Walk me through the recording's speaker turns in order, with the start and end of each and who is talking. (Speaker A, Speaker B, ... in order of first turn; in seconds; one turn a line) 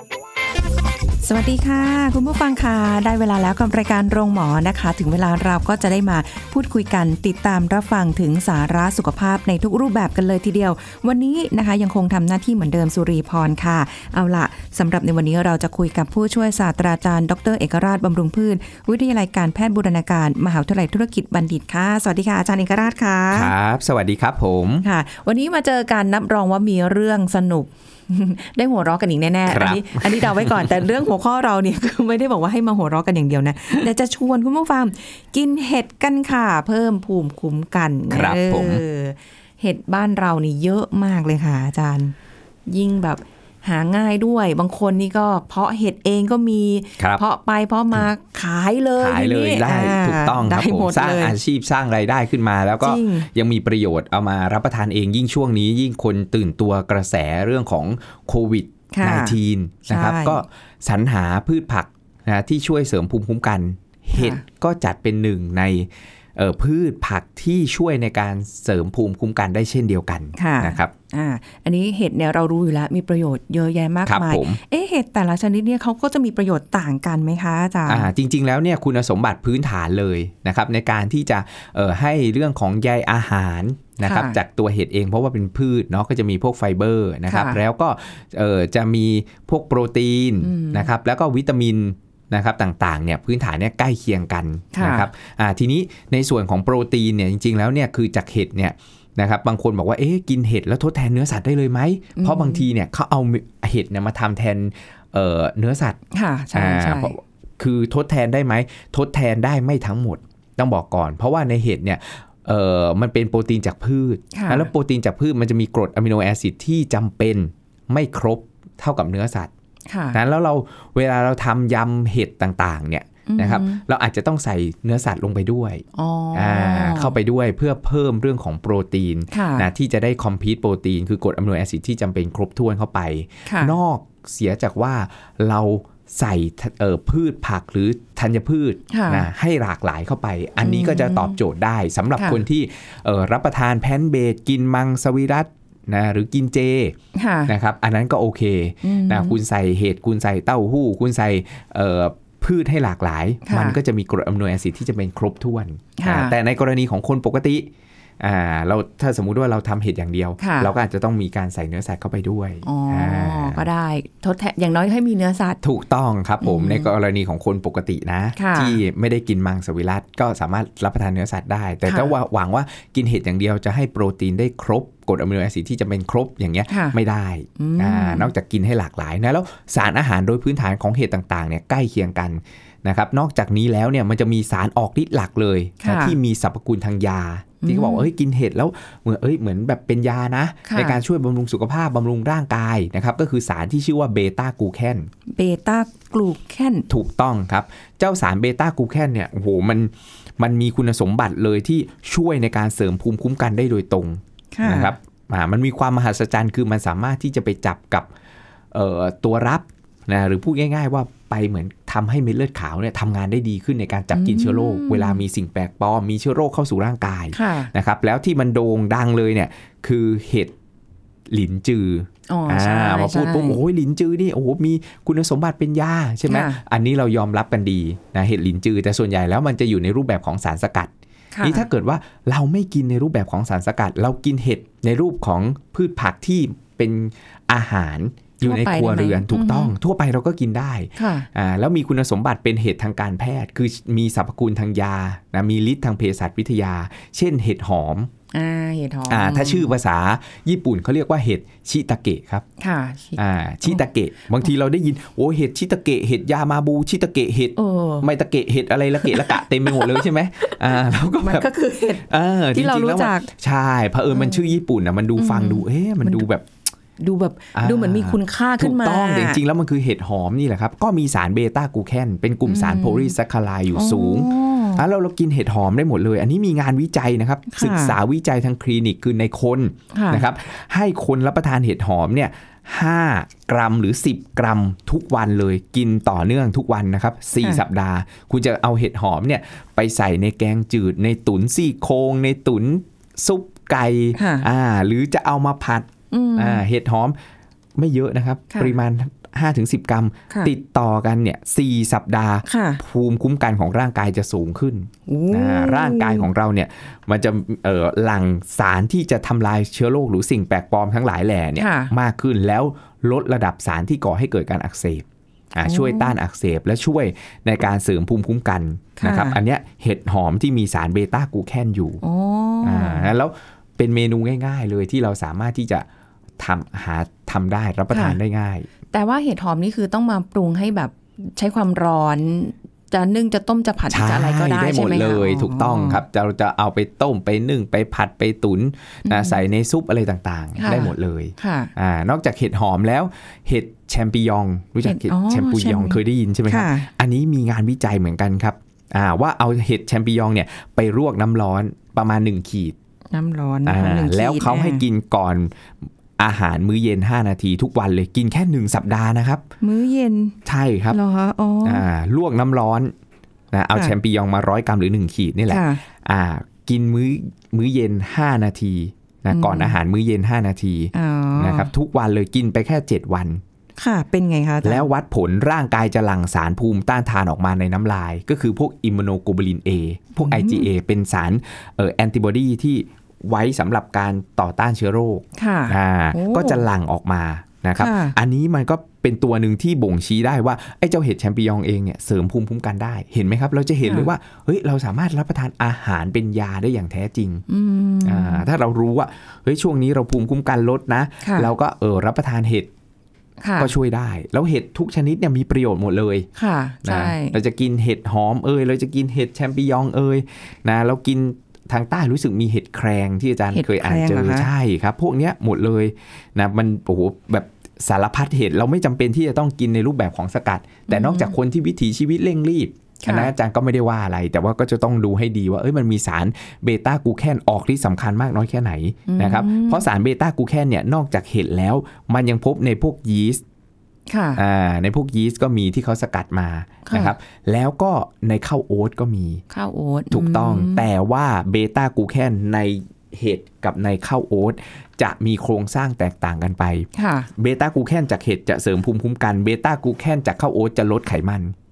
Speaker A: 1.2-23.5
Speaker B: 23.3-24.9
Speaker A: 24.8-42.1
Speaker B: 29.4-30.7
Speaker B: 38.1-38.8
Speaker A: 42.7-51.4
Speaker B: 49.0-70.9
Speaker A: 52.8-53.3
Speaker A: 58.9-60.4
Speaker A: 64.2-64.4
Speaker A: 70.4-78.1
Speaker B: 74.0-74.6
Speaker B: 77.8-106.0
Speaker A: 84.0-84.4
Speaker A: 87.3-87.6
Speaker A: 90.4-90.9
Speaker A: 94.7-95.1
Speaker A: 102.2-102.6
Speaker A: 106.1-107.1
Speaker B: 106.5-119.5
Speaker A: 114.3-114.7
Speaker A: 119.9-120.2
Speaker B: 120.1-163.7
Speaker A: 123.3-123.8
Speaker A: 125.9-127.1
Speaker A: 129.3-129.7
Speaker A: 133.4-133.8
Speaker A: 138.9-139.3
Speaker A: 140.6-141.4
Speaker A: 147.1-147.5
Speaker A: 148.8-149.4
Speaker A: 153.4-153.8
Speaker A: 156.0-156.3
Speaker A: 160.4-160.7
Speaker A: 162.6-165.6
Speaker B: 165.6-195.1
Speaker A: 166.4-166.9
Speaker A: 168.3-168.8
Speaker A: 171.8-172.1
Speaker A: 176.7-177.0
Speaker A: 177.6-178.3
Speaker A: 185.8-186.2
Speaker A: 187.6-188.1
Speaker A: 190.7-191.0
Speaker A: 195.3-196.9
Speaker B: 196.9-208.1
Speaker A: 204.5-204.9
Speaker B: 208.7-220.5
Speaker A: 214.1-215.2
Speaker A: 217.3-217.7
Speaker B: 221.3-230.9
Speaker A: 222.3-223.6
Speaker A: 226.3-226.6
Speaker A: 231.3-231.6
Speaker B: 231.4-248.1
Speaker A: 238.4-239.7
Speaker A: 241.0-241.3
Speaker A: 248.3-249.7
Speaker B: 249.1-252.4
Speaker A: 252.6-253.8
Speaker B: 253.2-261.5
Speaker A: 257.6-258.1
Speaker A: 259.0-263.3
Speaker B: 262.0-266.5
Speaker A: 264.1-264.6
Speaker A: 265.1-266.2
Speaker A: 267.0-269.4
Speaker B: 267.5-297.1
Speaker A: 272.5-273.1
Speaker A: 273.7-274.8
Speaker A: 277.5-277.9
Speaker A: 279.9-280.2
Speaker A: 294.1-294.4
Speaker A: 296.1-296.6
Speaker B: 297.8-322.0
Speaker A: 302.4-302.8
Speaker A: 305.1-306.3
Speaker A: 311.6-311.9
Speaker A: 315.6-316.1
Speaker A: 319.0-319.4
Speaker A: 322.0-323.1
Speaker B: 322.6-325.9
Speaker B: 326.4-328.7
Speaker A: 327.9-328.2
Speaker A: 328.9-336.0
Speaker B: 333.9-352.8
Speaker A: 339.0-339.4
Speaker A: 340.6-341.7
Speaker A: 344.8-346.9
Speaker A: 353.1-354.8
Speaker B: 353.6-355.6
Speaker B: 356.2-359.4
Speaker A: 359.6-360.4
Speaker B: 360.4-361.0
Speaker A: 360.9-361.9
Speaker B: 361.6-362.9
Speaker B: 363.5-373.4
Speaker A: 365.5-365.8
Speaker A: 369.3-369.7
Speaker A: 370.9-371.7
Speaker A: 373.8-374.9
Speaker B: 374.6-397.4
Speaker A: 380.2-380.7
Speaker A: 385.4-386.6
Speaker A: 387.8-388.1
Speaker A: 393.8-394.1
Speaker A: 397.5-398.4
Speaker B: 398.0-402.7
Speaker A: 401.2-401.5
Speaker A: 403.4-403.7
Speaker B: 403.6-406.3
Speaker A: 406.4-407.4
Speaker B: 406.8-433.4
Speaker A: 413.5-414.5
Speaker A: 420.9-421.3
Speaker A: 423.0-423.3
Speaker A: 429.1-429.8
Speaker A: 434.1-434.4
Speaker B: 434.4-439.4
Speaker A: 436.9-437.1
Speaker A: 439.5-440.9
Speaker B: 440.1-451.5
Speaker A: 446.9-447.3